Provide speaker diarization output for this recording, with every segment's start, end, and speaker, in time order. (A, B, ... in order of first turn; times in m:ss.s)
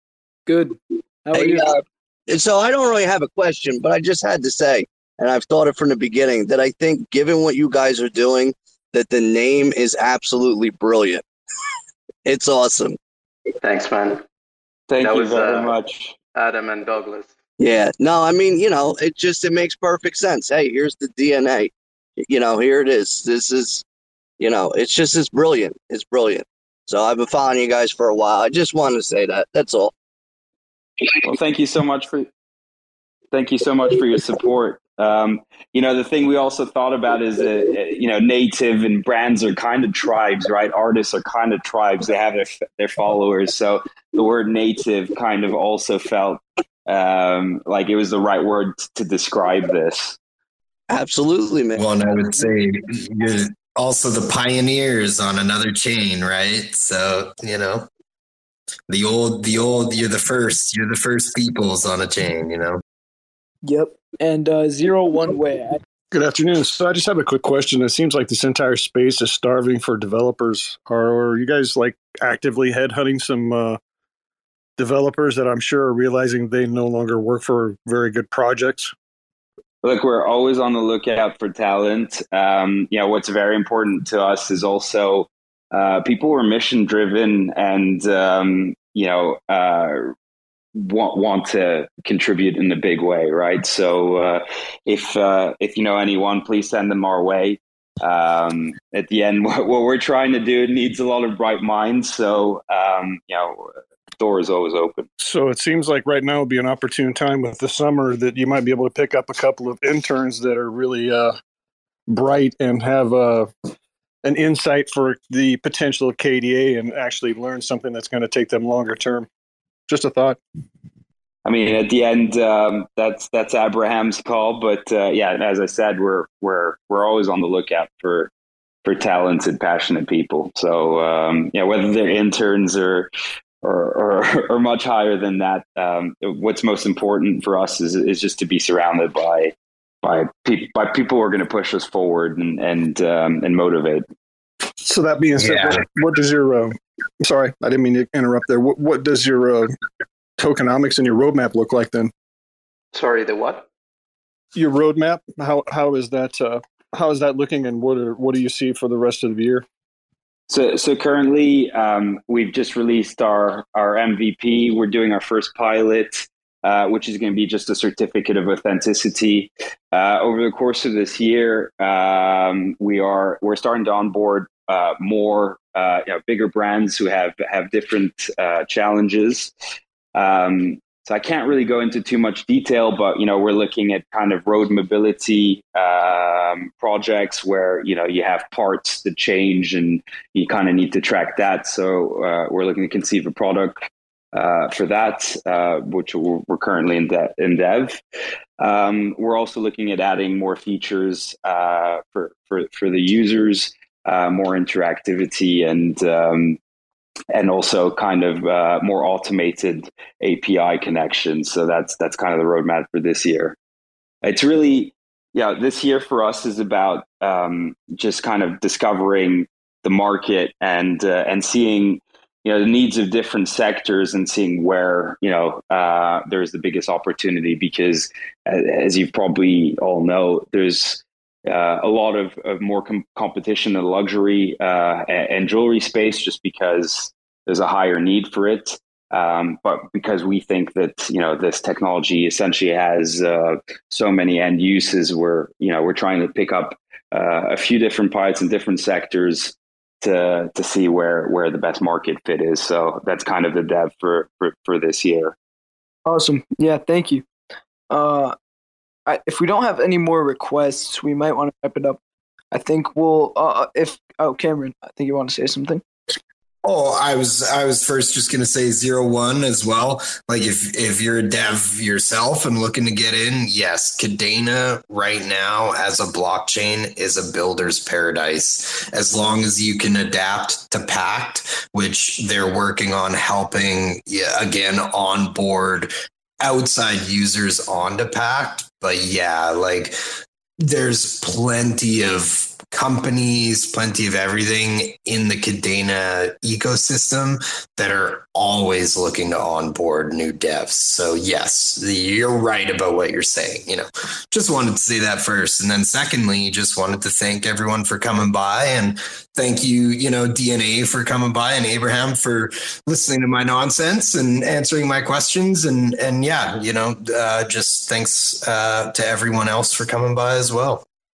0:00.5-0:01.8 A
0:01.3-0:11.2 B
0:12.2-0:13.0 B
0:13.6-0:14.2 C
0:14.9-0:16.1 D
0:15.0-0:15.7 C
0:16.3-0:17.3 C
0:17.6-0:23.8 B
0:24.4-0:29.9 B
0:31.1-0:32.3 D
0:33.3-0:50.2 D
0:50.9-0:51.8 B
0:51.8-0:57.9 E
0:58.9-1:02.8 E
1:03.6-1:05.8 A
1:06.1-1:13.8 F
1:14.8-1:18.9 F
1:19.8-1:30.1 D
1:30.8-1:45.1 D
1:45.2-1:51.4 F
1:52.1-1:53.5 F
1:54.2-1:59.3 F
1:59.9-2:00.4 F
2:01.4-2:08.3 D
2:08.8-2:13.1 D
2:13.6-2:24.0 D
2:24.8-2:29.7 F
2:25.4-2:25.8 E
2:30.4-2:32.1 F
2:32.9-2:33.7 C
2:34.5-2:39.6 F
2:40.5-2:59.5 D
3:00.1-3:18.0 D
3:18.6-3:26.6 D
3:27.3-3:33.6 D
3:34.2-4:15.3 D
4:16.0-4:17.2 A
4:17.9-4:18.3 A
4:19.1-4:22.0 A
4:22.5-4:25.8 A
4:26.6-4:50.0 E
4:50.6-5:20.8 E